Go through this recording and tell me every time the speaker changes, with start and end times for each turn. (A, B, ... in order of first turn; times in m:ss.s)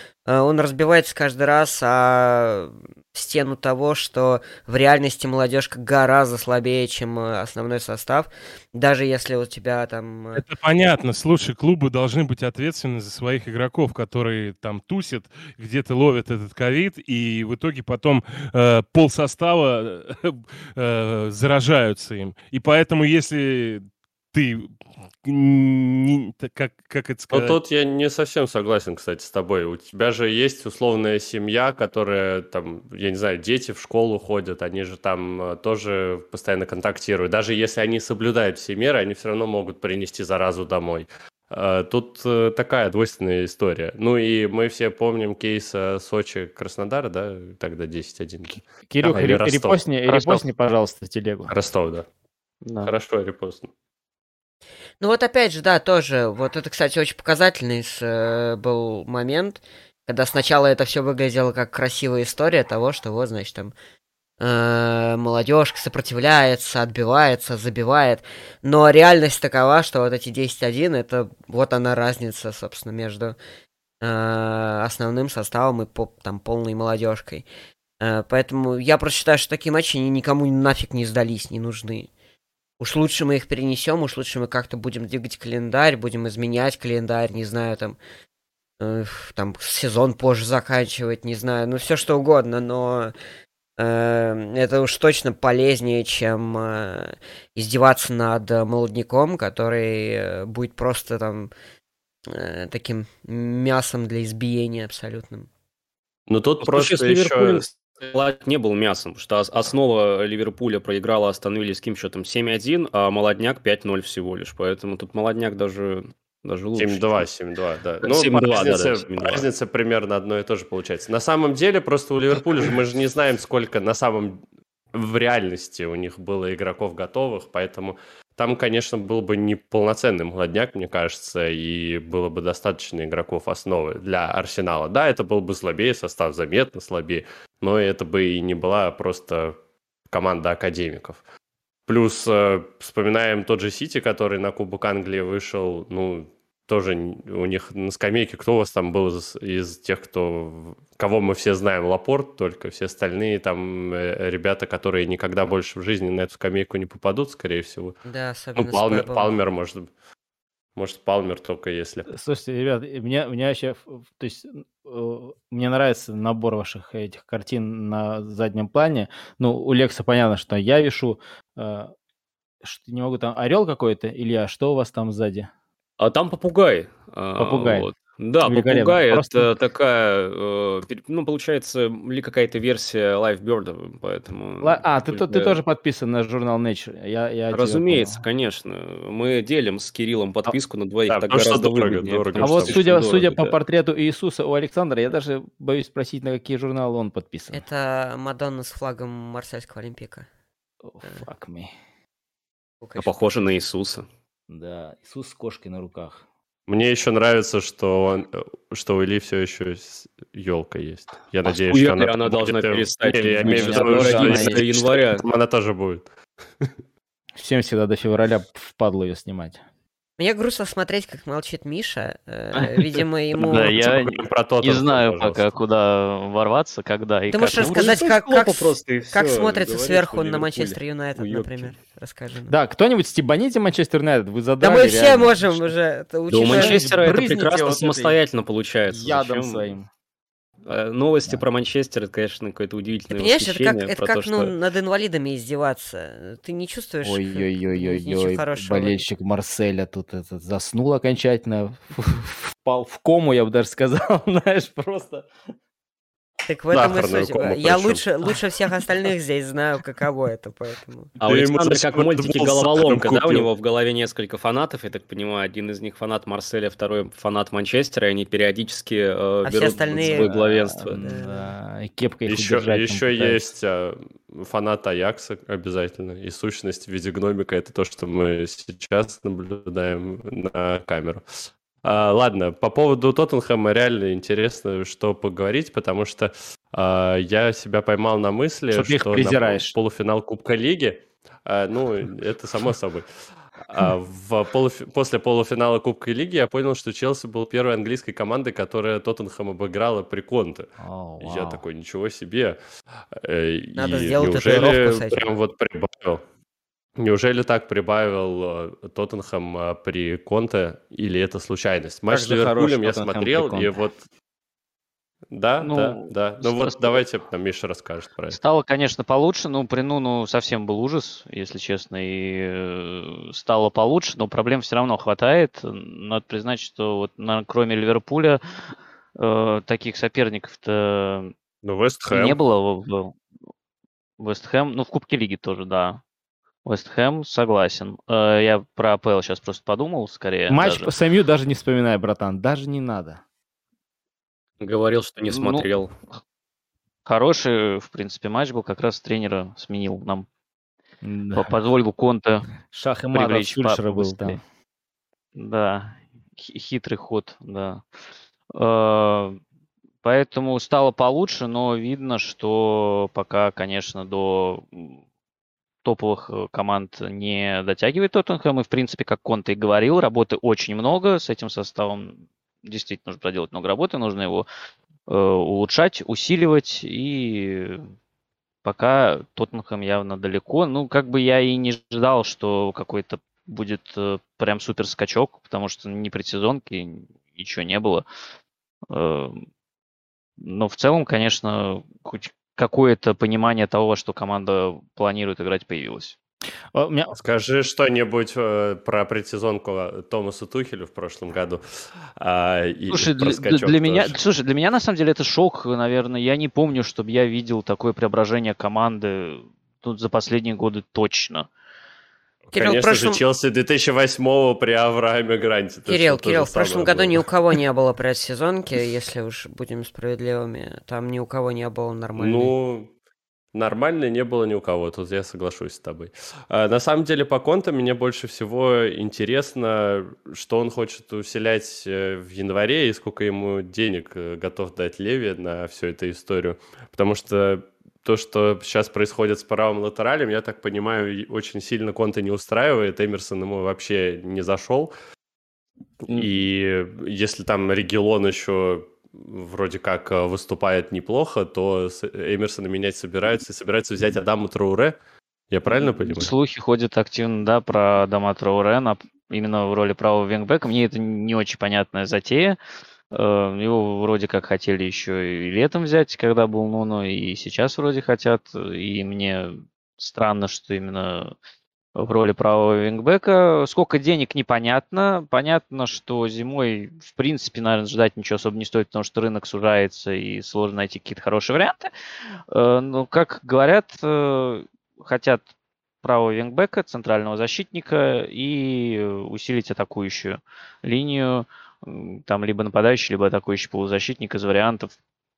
0:00.2-0:10.4 A
0:10.4-0:24.7 B
0:25.2-0:27.6 B
0:27.3-0:49.9 C
0:48.9-0:51.5 D
0:50.1-0:50.4 E
0:51.5-0:52.0 C
0:52.6-0:52.9 E
0:52.8-0:53.7 C
0:55.0-1:03.7 A
1:04.4-1:13.4 A
1:14.0-1:17.4 A
1:18.0-1:22.1 A
1:22.8-1:28.0 A
1:28.8-1:33.1 A
1:33.8-1:41.5 A
1:42.3-1:45.5 A
1:46.3-1:47.6 C
1:46.6-1:57.2 F
1:56.8-2:04.4 C
1:58.0-1:59.4 F
2:04.9-2:19.6 C
2:20.1-2:21.2 C
2:21.9-2:38.0 C
2:38.0-2:39.3 A
2:38.6-2:39.9 C
2:40.8-2:42.1 C
2:42.1-2:51.9 D
2:52.6-2:55.5 D
2:56.0-3:05.6 F
2:57.4-2:57.9 D
2:58.4-2:59.5 D
3:04.6-3:08.2 D
3:07.5-3:13.5 F
3:11.1-3:13.2 C
3:12.4-3:17.6 D
3:17.5-3:20.3 A
3:20.8-3:21.7 D
3:22.8-3:23.1 A
3:23.0-3:24.1 F
3:24.5-3:26.2 D
3:26.7-3:36.1 C
3:31.4-3:35.2 F
3:33.3-3:34.6 D
3:37.4-3:39.6 D
3:40.2-3:43.7 A
3:43.5-3:45.4 C
3:43.5-3:47.9 E
3:47.3-3:52.5 A
3:47.6-3:51.8 F
3:52.5-3:55.7 D
3:54.6-3:56.8 A
3:56.3-3:59.7 F
3:56.4-3:58.2 D
3:58.9-3:59.9 D
4:00.6-4:04.5 F
4:03.1-4:09.0 A
4:07.0-4:15.3 D
4:16.4-4:21.1 A
4:16.7-4:18.0 C
4:21.2-4:31.1 F
4:21.2-4:23.5 C
4:29.4-4:30.3 A
4:30.0-4:33.4 D
4:31.0-4:31.4 A
4:32.3-4:41.2 C
4:41.8-4:53.1 C
4:48.7-4:49.7 D
4:53.6-5:00.7 C
5:00.8-5:01.6 D
5:01.2-5:02.6 C
5:03.1-5:06.2 C
5:03.8-5:05.3 A
5:07.0-5:14.0 C
5:12.1-5:13.8 D
5:15.3-5:18.4 C
5:15.6-5:17.0 E
5:18.3-5:28.4 E
5:29.2-5:31.3 E
5:31.6-5:32.4 C
5:32.1-5:33.2 E
5:34.2-5:36.0 E
5:36.6-5:40.9 E
5:40.5-5:43.2 D
5:44.6-5:45.9 F
5:45.3-5:45.6 E
5:47.0-5:50.3 E
5:51.0-5:51.6 D
5:51.3-5:52.5 E
5:52.7-5:54.4 D
5:53.1-5:54.4 E
5:55.4-5:57.8 E
5:58.5-5:59.4 E
6:00.0-6:05.0 E
6:05.8-6:14.5 E
6:15.1-6:17.9 E
6:18.6-6:28.0 E
6:28.9-6:29.4 E
6:30.4-6:36.2 E
6:36.7-6:37.2 D
6:37.1-6:44.1 C
6:42.9-6:51.5 E
6:52.5-6:57.2 C
6:52.5-6:53.2 A
6:55.9-7:02.5 A
7:02.1-7:02.9 C
7:03.5-7:24.9 C
7:26.0-7:35.0 C
7:35.5-7:36.3 C
7:35.7-7:42.6 E
7:43.1-7:51.4 E
7:52.0-8:01.9 E
8:02.5-8:05.4 E
8:06.0-8:14.9 E